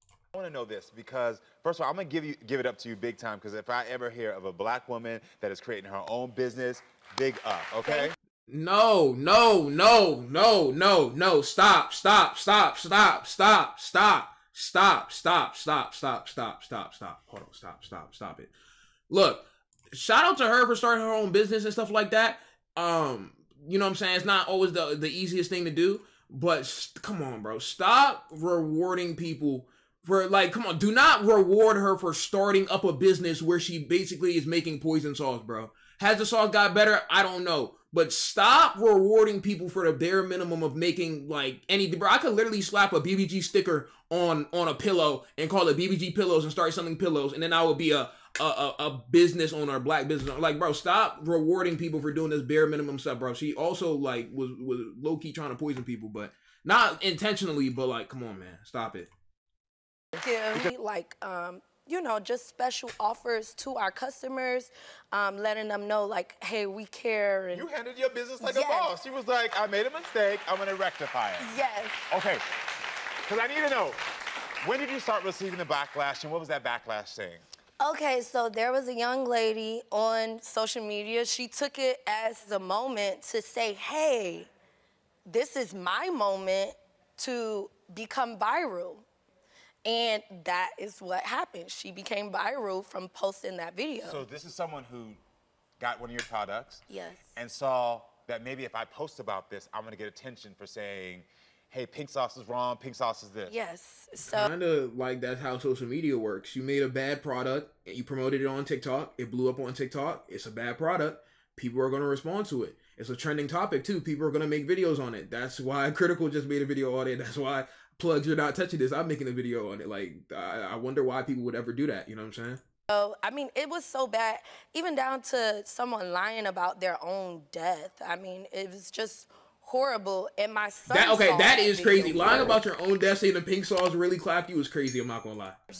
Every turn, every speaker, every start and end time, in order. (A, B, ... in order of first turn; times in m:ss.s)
0:00.3-0:08.1 A
0:08.5-0:18.5 B
0:19.1-0:59.1 B
1:00.2-1:07.7 C
1:07.5-1:11.5 A
1:08.4-1:08.9 C
1:11.4-1:12.1 C
1:12.1-1:12.4 A
1:13.2-1:14.0 A
1:14.6-1:17.4 A
1:17.8-1:24.5 C
1:25.2-1:29.0 C
1:29.8-1:34.2 C
1:34.0-1:35.2 A
1:35.8-1:43.5 A
1:36.9-1:37.3 C
1:43.5-1:44.5 C
1:44.2-2:02.6 B
2:02.9-2:12.6 C
2:10.9-2:15.6 B